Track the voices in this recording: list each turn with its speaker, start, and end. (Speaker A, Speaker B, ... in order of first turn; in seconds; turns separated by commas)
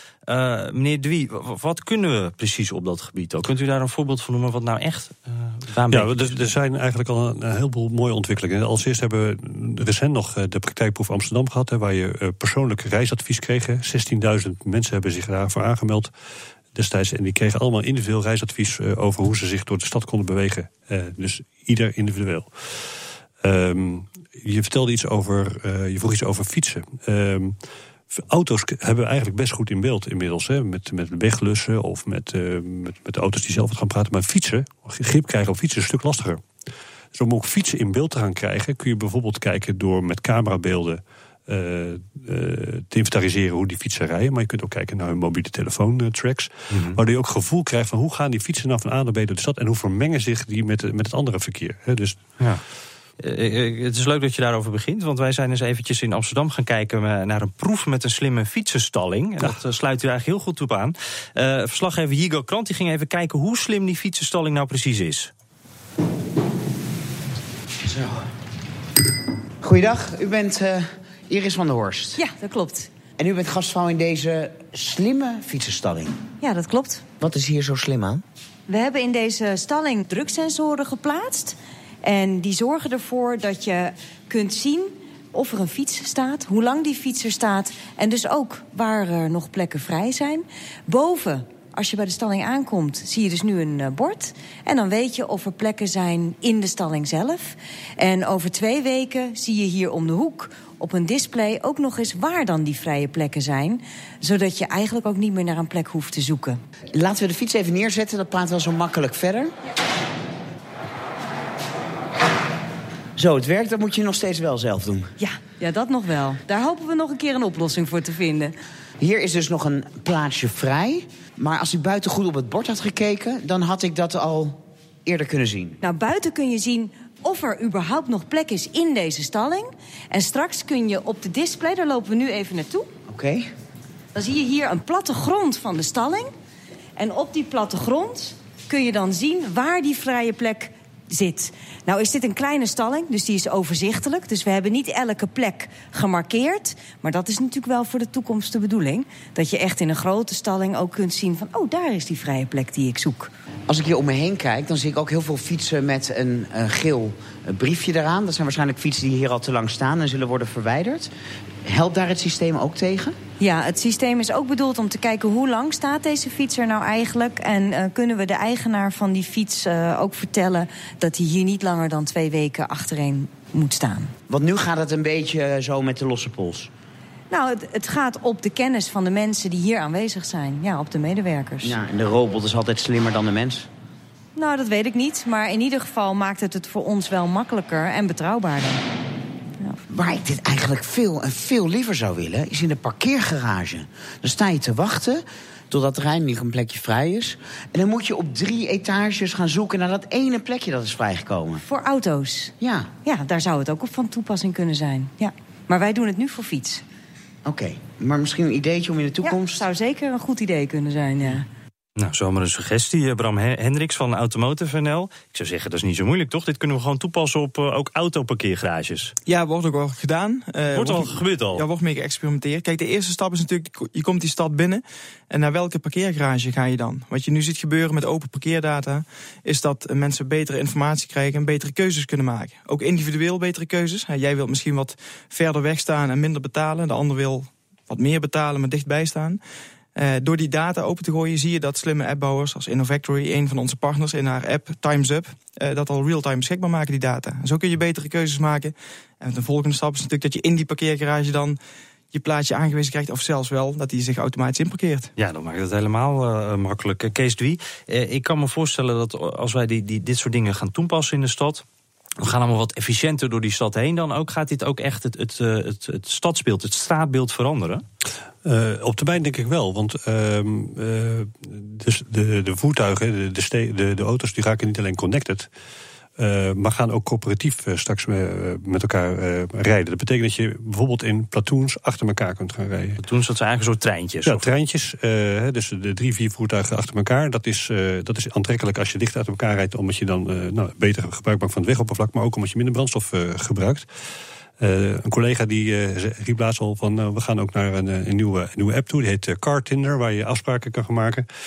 Speaker A: 0.3-6.3, Speaker B: 5.9-16.1, Speaker B: 16.7-22.5, Speaker B: 23.4-27.6, Speaker B: 28.1-36.4, Speaker B: 37.1-52.2, Speaker A: 46.7-47.0, Speaker A: 53.2-65.3, Speaker C: 67.8-68.3, Speaker C: 69.6-72.2, Speaker D: 72.2-72.9, Speaker C: 73.2-76.2, Speaker D: 76.4-77.0, Speaker C: 77.2-78.2, Speaker D: 78.7-106.6, Speaker C: 106.9-109.5, Speaker C: 113.2-115.1, Speaker D: 115.2-118.5, Speaker C: 119.0-125.8, Speaker D: 125.8-132.9, Speaker C: 133.1-133.5, Speaker D: 134.1-136.3, Speaker D: 137.0-153.3, Speaker C: 153.7-161.1, Speaker C: 161.7-163.2, Speaker D: 163.4-174.1, Speaker C: 174.3-176.7, Speaker D: 177.3-181.8, Speaker C: 181.6-183.7, Speaker D: 184.3-188.8, Speaker C: 189.9-201.6, Speaker D: 201.6-206.8, Speaker C: 202.6-202.9, Speaker C: 207.4-209.6, Speaker D: 209.2-211.5, Speaker A: 212.0-219.1, Speaker E: 219.2-239.4, Speaker A: 220.7-221.6, Speaker E: 239.9-251.6, Speaker E: 252.1-255.1, Speaker A: 255.2-261.6, Speaker A: 262.2-267.8, Speaker B: 268.4-275.5, Speaker B: 276.2-283.0, Speaker A: 283.0-284.4, Speaker B: 284.2-293.9, Speaker B: 294.6-301.2